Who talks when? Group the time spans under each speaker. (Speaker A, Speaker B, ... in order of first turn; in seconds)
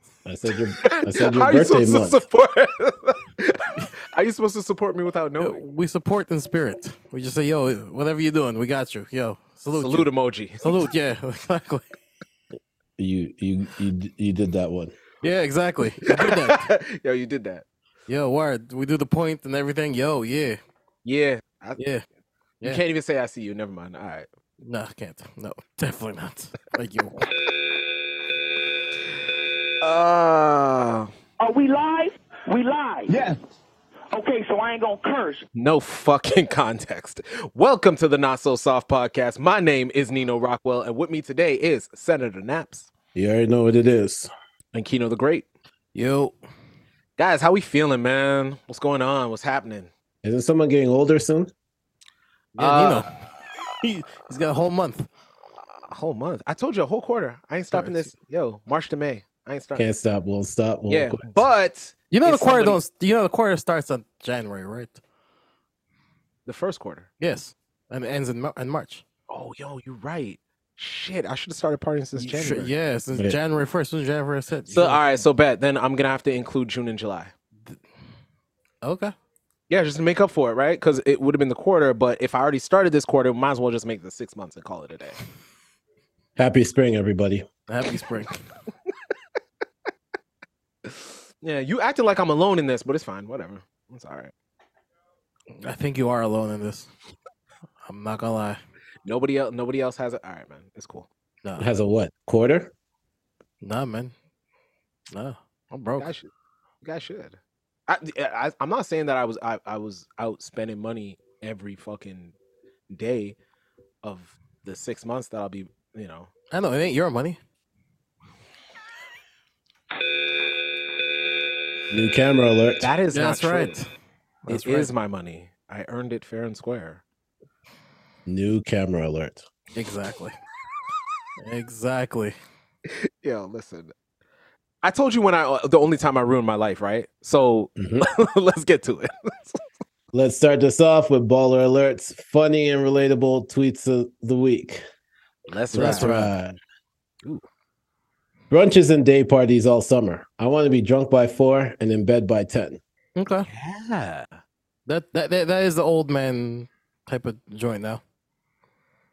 Speaker A: 0.2-2.2, 13.0-15.0, 43.1-44.3, 50.2-51.5, 59.8-61.4, 86.4-87.5, 101.6-102.7, 121.9-122.9, 128.3-129.4, 137.8-138.1, 140.1-144.8, 145.7-146.6, 148.5-152.8
Speaker B: 0.8-5.6, 9.7-10.9, 16.1-17.6, 21.1-21.8, 22.6-24.3, 29.8-31.1, 35.5-42.9, 44.7-45.5, 47.2-49.9, 52.6-53.1, 55.9-59.9, 60.9-62.8, 66.5-67.1, 69.3-72.7, 74.7-77.3, 79.7-85.2, 91.4-94.3, 99.0-101.1, 106.0-106.3, 106.8-112.3, 112.9-113.4, 114.0-116.3, 122.8-123.8, 124.5-127.0, 132.9-133.9, 134.8-139.6, 145.5-146.1, 153.5-154.4
Speaker C: 5.4-10.1, 10.6-11.9, 15.2-16.7, 18.1-20.6, 21.8-22.0, 24.6-27.2, 46.0-46.4, 52.6-53.1, 53.8-55.1, 57.7-58.1, 62.1-65.0, 67.2-69.0, 72.2-75.1, 78.8-79.1, 87.7-88.4, 95.6-96.9, 97.8-98.6, 103.6-104.1, 105.1-106.1, 116.5-117.4, 123.1-123.9, 124.5-124.9, 129.8-130.4, 131.4-132.3, 145.8-146.3, 153.2-153.5, 154.9-158.0
Speaker D: 31.4-33.2, 34.1-35.5